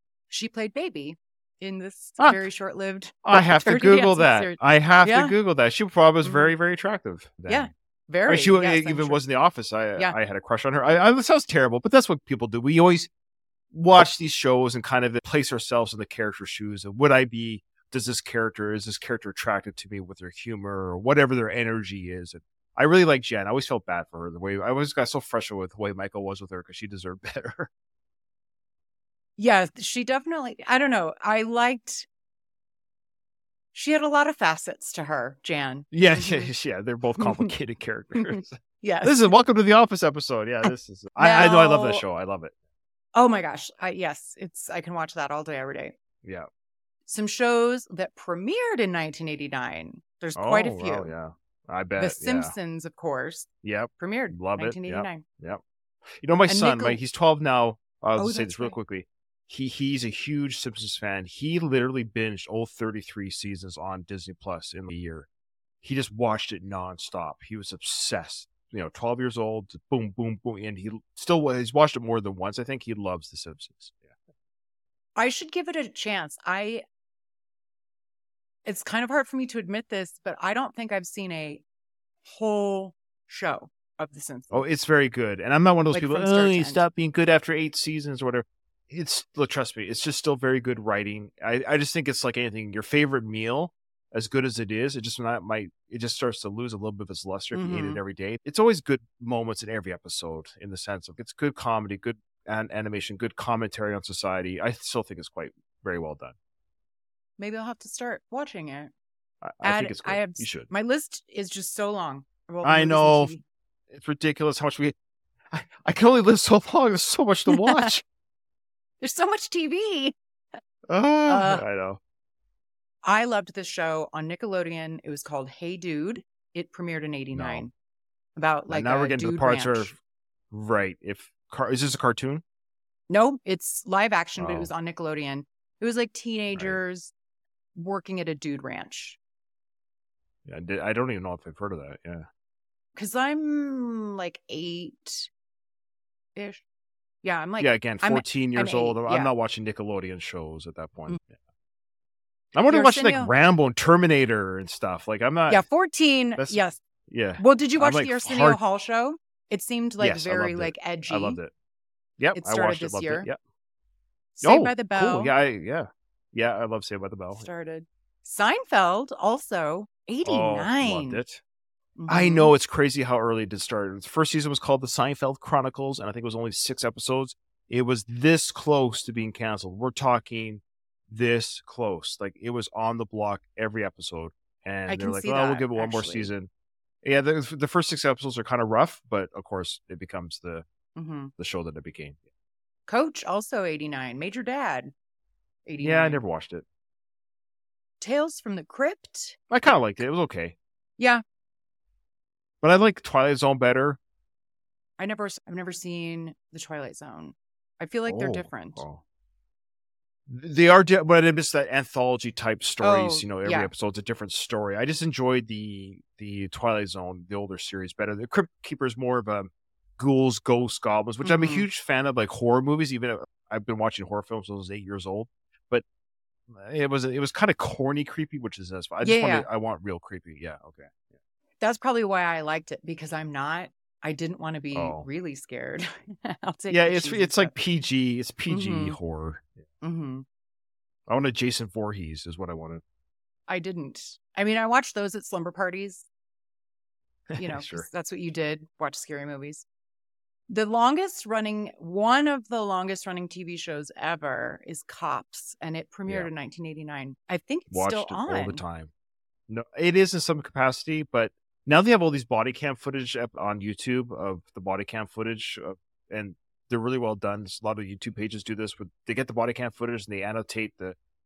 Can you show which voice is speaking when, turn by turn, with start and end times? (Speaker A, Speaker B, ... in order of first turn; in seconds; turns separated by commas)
Speaker A: 0.3-5.3, Speaker B: 2.2-2.5, Speaker B: 3.2-7.7, Speaker A: 6.2-6.5, Speaker A: 7.5-9.2, Speaker B: 8.3-13.1, Speaker B: 13.7-27.7, Speaker A: 29.4-32.1, Speaker A: 33.7-36.5, Speaker B: 35.9-42.5, Speaker A: 37.2-37.5, Speaker A: 38.2-39.4, Speaker A: 40.7-42.0, Speaker A: 43.1-46.0, Speaker B: 46.2-46.5, Speaker A: 47.1-51.1, Speaker B: 50.4-52.5, Speaker A: 52.0-55.2, Speaker B: 53.6-65.3, Speaker A: 56.5-57.0, Speaker A: 58.2-58.8, Speaker B: 65.8-74.1, Speaker A: 75.2-76.8, Speaker A: 78.7-81.6, Speaker A: 82.2-84.6, Speaker B: 84.5-106.3, Speaker A: 85.9-86.8, Speaker A: 97.5-98.0, Speaker A: 107.4-108.9, Speaker B: 109.4-110.7, Speaker A: 109.6-113.4, Speaker B: 112.6-113.3, Speaker B: 113.9-115.0, Speaker B: 115.5-118.0, Speaker A: 117.5-117.9, Speaker A: 119.0-120.2, Speaker B: 120.9-122.0, Speaker A: 121.3-121.6, Speaker A: 123.0-127.7, Speaker B: 127.3-127.7, Speaker A: 128.4-129.9, Speaker B: 128.7-130.0, Speaker B: 130.5-132.4, Speaker A: 133.1-137.1, Speaker B: 134.4-134.7, Speaker B: 136.5-136.8, Speaker A: 137.8-139.2, Speaker B: 140.5-142.3, Speaker A: 142.9-145.3, Speaker A: 146.3-146.6, Speaker A: 147.2-149.3, Speaker B: 147.6-151.3, Speaker B: 152.5-155.7, Speaker A: 152.7-153.3, Speaker A: 155.5-156.8, Speaker B: 156.4-158.6, Speaker A: 157.4-161.4, Speaker B: 160.0-161.5, Speaker B: 162.2-163.4, Speaker A: 162.3-163.3, Speaker A: 164.4-165.3, Speaker B: 164.4-167.4, Speaker A: 167.3-171.2, Speaker B: 170.2-171.4, Speaker A: 172.0-172.5, Speaker B: 172.1-186.5, Speaker A: 184.9-186.3, Speaker B: 187.0-190.7, Speaker A: 191.0-191.3, Speaker B: 191.4-192.2, Speaker A: 192.9-194.9, Speaker A: 195.7-196.2, Speaker B: 195.8-196.6, Speaker A: 198.0-199.4, Speaker B: 199.5-200.6, Speaker B: 202.6-204.0, Speaker A: 205.0-208.8, Speaker B: 208.1-209.0, Speaker B: 210.3-225.8, Speaker A: 212.8-213.7, Speaker A: 221.2-221.7, Speaker B: 226.5-230.9, Speaker A: 229.0-229.5, Speaker A: 231.6-237.5, Speaker B: 234.7-235.1, Speaker B: 236.7-239.6, Speaker A: 238.5-239.0, Speaker A: 239.8-240.2, Speaker B: 241.1-242.8, Speaker A: 243.5-246.1, Speaker B: 247.3-247.8, Speaker A: 247.4-249.7, Speaker A: 250.5-258.6, Speaker B: 257.7-258.9, Speaker B: 259.5-271.0